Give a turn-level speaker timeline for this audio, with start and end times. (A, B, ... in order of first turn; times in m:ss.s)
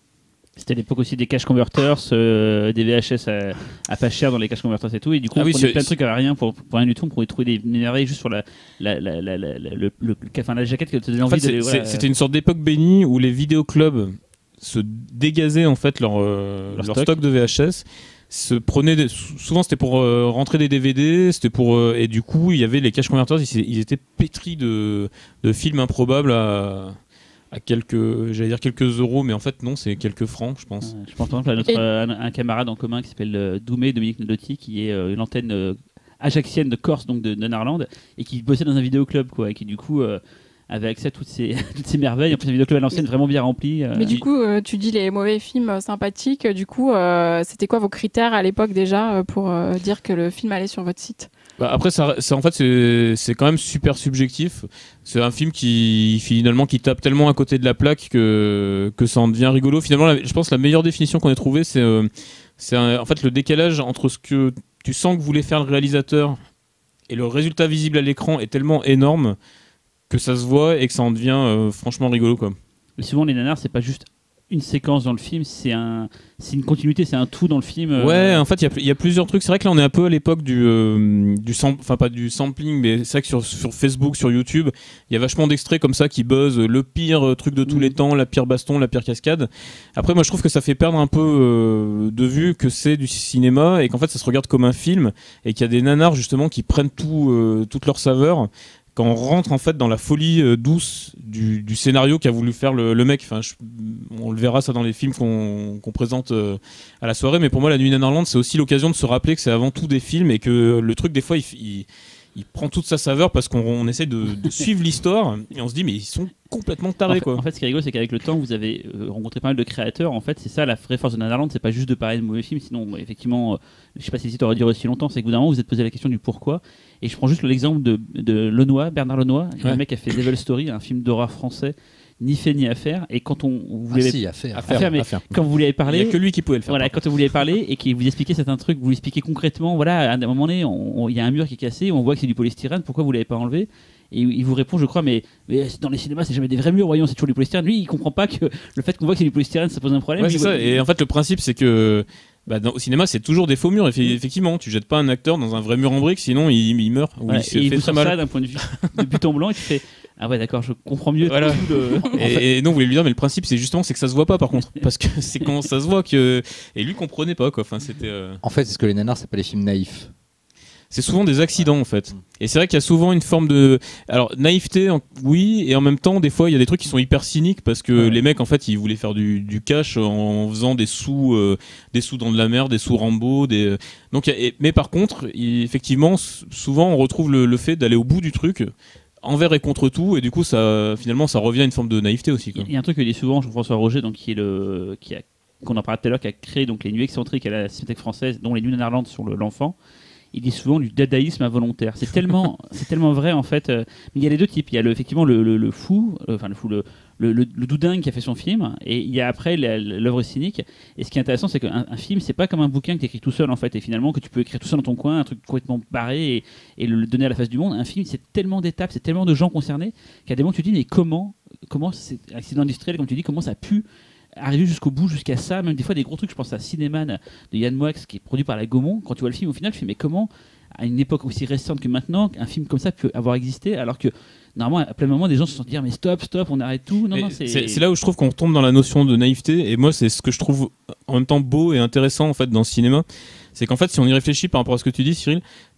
0:00.6-0:12.0 A
0:05.3-0:05.9 B
0:11.2-0:27.0 B
0:16.7-0:17.1 A
0:27.5-0:30.9 B
0:30.8-0:44.1 A
0:43.9-0:51.3 C
0:51.6-1:06.4 B
1:07.1-1:09.4 B
1:10.1-1:12.6 B
1:13.0-1:18.4 A
1:18.0-1:57.4 B
1:27.6-1:27.9 A
1:57.1-2:30.8 A
2:13.9-2:14.9 D
2:14.5-2:15.3 B
2:15.8-2:17.0 B
2:30.2-2:39.0 B
2:37.3-2:42.4 A
2:41.2-2:48.4 B
2:48.4-2:50.1 D
2:50.9-3:08.7 B
3:09.2-3:12.7 B
3:12.5-3:19.8 A
3:20.3-3:43.8 A
3:44.4-3:57.8 A
3:57.1-4:05.4 B